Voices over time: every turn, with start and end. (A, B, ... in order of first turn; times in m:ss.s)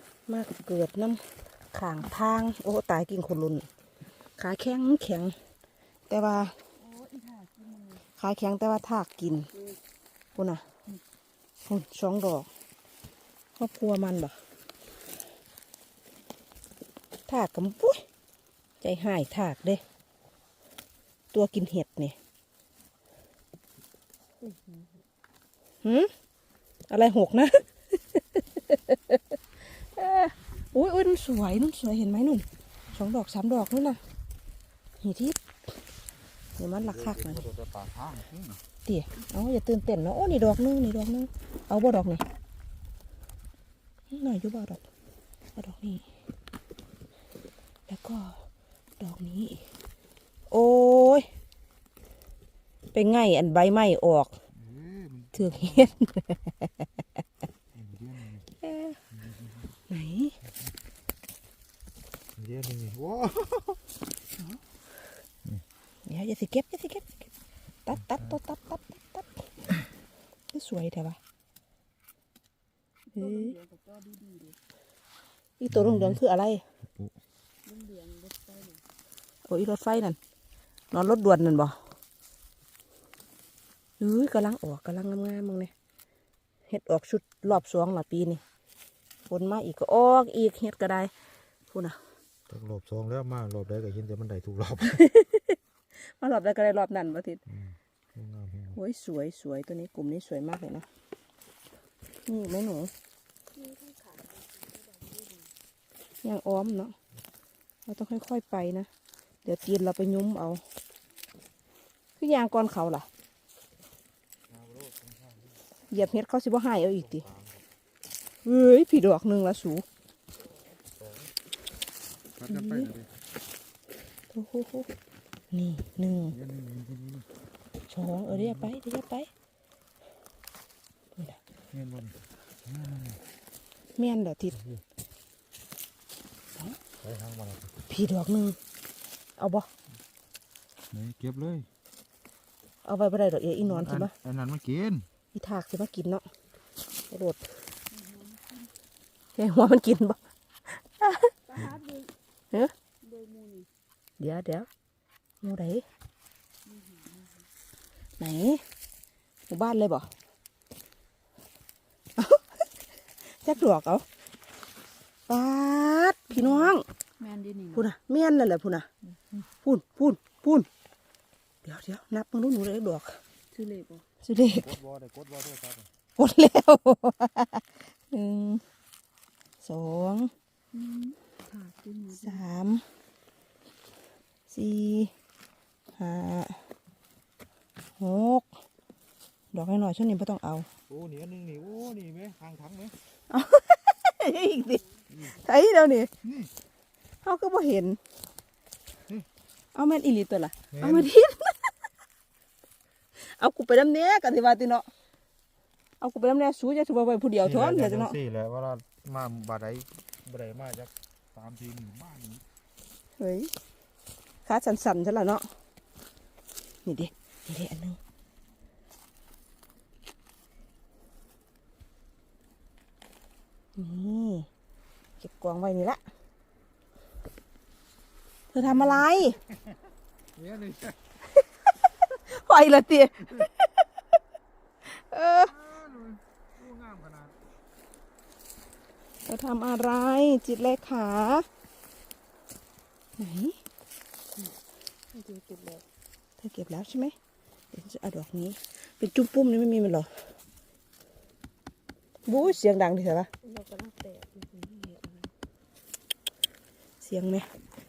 0:00.3-0:03.7 A
0:04.4-0:05.4 A
0:06.1-0:06.6 A
0:06.8-0:08.0 B
0:08.0-0:09.5 A
0:10.3-0:10.6 A
0:11.6-0:12.5 A
0:13.6-0:14.4 A
0:17.3-0:18.0 A
0:18.8-0:19.8 A
0:21.3-0:22.2 A
0:24.4-0:25.0 B
0:25.8-0:26.1 A
0:26.9-0:34.0 A
0:35.0-0:35.4 A
0:36.6-0:37.5 A
0:36.8-0:38.6 C
0:38.8-0:42.2 A
0:44.1-0:44.8 A
0:45.6-0:46.1 A
0:47.9-0:48.4 A
0:49.0-0:49.6 A
0:50.5-0:51.3 A
0:52.9-0:54.3 A
0:54.6-0:55.9 C
0:55.3-0:56.7 A
0:57.7-0:58.4 C
0:58.6-0:59.0 A
0:59.1-0:59.6 C
0:59.9-1:00.4 A
1:02.4-1:03.8 C
1:04.3-1:04.6 A
1:06.0-1:07.3 A
1:07.8-1:09.4 A
1:10.5-1:11.2 A
1:13.1-1:14.6 B
1:13.2-1:13.5 A
1:15.6-1:16.6 A
1:15.7-1:16.2 C
1:17.6-1:18.8 B
1:19.5-1:20.2 A
1:20.9-1:21.8 A
1:24.0-1:25.7 A
1:26.7-1:28.4 A
1:29.3-1:31.1 A
1:31.7-1:32.0 A
1:32.5-1:35.0 C
1:34.8-1:37.4 A
1:37.6-1:38.8 C
1:38.7-1:40.9 A
1:42.2-1:42.9 A
1:43.5-1:45.5 B
1:46.2-1:46.9 A
1:47.8-1:48.9 A
1:49.4-1:50.6 A
1:52.2-1:53.1 A
1:54.5-1:55.6 C
1:55.9-1:57.3 A
1:56.9-1:57.6 C
1:58.4-1:59.8 A
2:01.0-2:01.3 C
2:02.4-2:03.1 C
2:02.4-2:02.9 A
2:04.3-2:04.9 A
2:05.5-2:06.4 A
2:06.3-2:07.3 C
2:07.9-2:09.3 A
2:08.3-2:08.7 C
2:11.7-2:13.2 C
2:14.0-2:14.6 A
2:17.0-2:17.7 C
2:17.9-2:18.6 A
2:19.4-2:19.7 A
2:20.9-2:21.7 C
2:22.8-2:24.1 A
2:23.7-2:25.1 C
2:25.3-2:26.2 A
2:27.1-2:27.4 A
2:27.9-2:28.7 B
2:29.4-2:30.2 A
2:30.7-2:31.3 A
2:31.4-2:32.1 B
2:33.0-2:33.7 B
2:34.2-2:34.7 A
2:35.4-2:35.8 A
2:36.6-2:37.5 B
2:38.2-2:38.6 A
2:39.5-2:40.1 A
2:42.2-2:42.6 A
2:43.2-2:44.0 A
2:45.3-2:46.8 A
2:46.3-2:47.9 B
2:47.7-2:48.9 A
2:49.6-2:50.7 A
2:51.6-2:53.2 A
2:53.5-2:54.0 B
2:54.2-2:54.7 A
2:54.5-2:55.9 C
2:56.2-2:58.6 A
2:59.6-3:00.3 A
3:00.7-3:02.4 B
3:02.1-3:02.8 A
3:04.5-3:05.1 A
3:06.0-3:06.6 A
3:08.0-3:08.4 A
3:09.5-3:10.7 A
3:10.9-3:13.0 C
3:13.3-3:16.1 A
3:14.7-3:15.2 B
3:16.2-3:16.5 C
3:17.2-3:18.0 A
3:19.7-3:21.7 A
3:20.7-3:21.1 C
3:23.2-3:24.9 A
3:26.0-3:28.2 A
3:27.4-3:32.4 C
3:33.2-3:33.5 A
3:34.4-3:35.5 A
3:36.8-3:38.0 A
3:43.8-3:44.5 A
3:45.2-3:46.0 A
3:48.5-3:49.4 A
3:50.4-3:51.0 C
3:52.0-3:53.7 A
3:54.8-3:55.5 A
3:55.4-3:57.4 C
3:59.3-4:01.5 A
4:03.2-4:03.6 A
4:05.1-4:05.8 B
4:06.4-4:07.2 A
4:07.7-4:10.1 A
4:12.3-4:13.3 A
4:13.3-4:15.3 B
4:17.0-4:17.5 A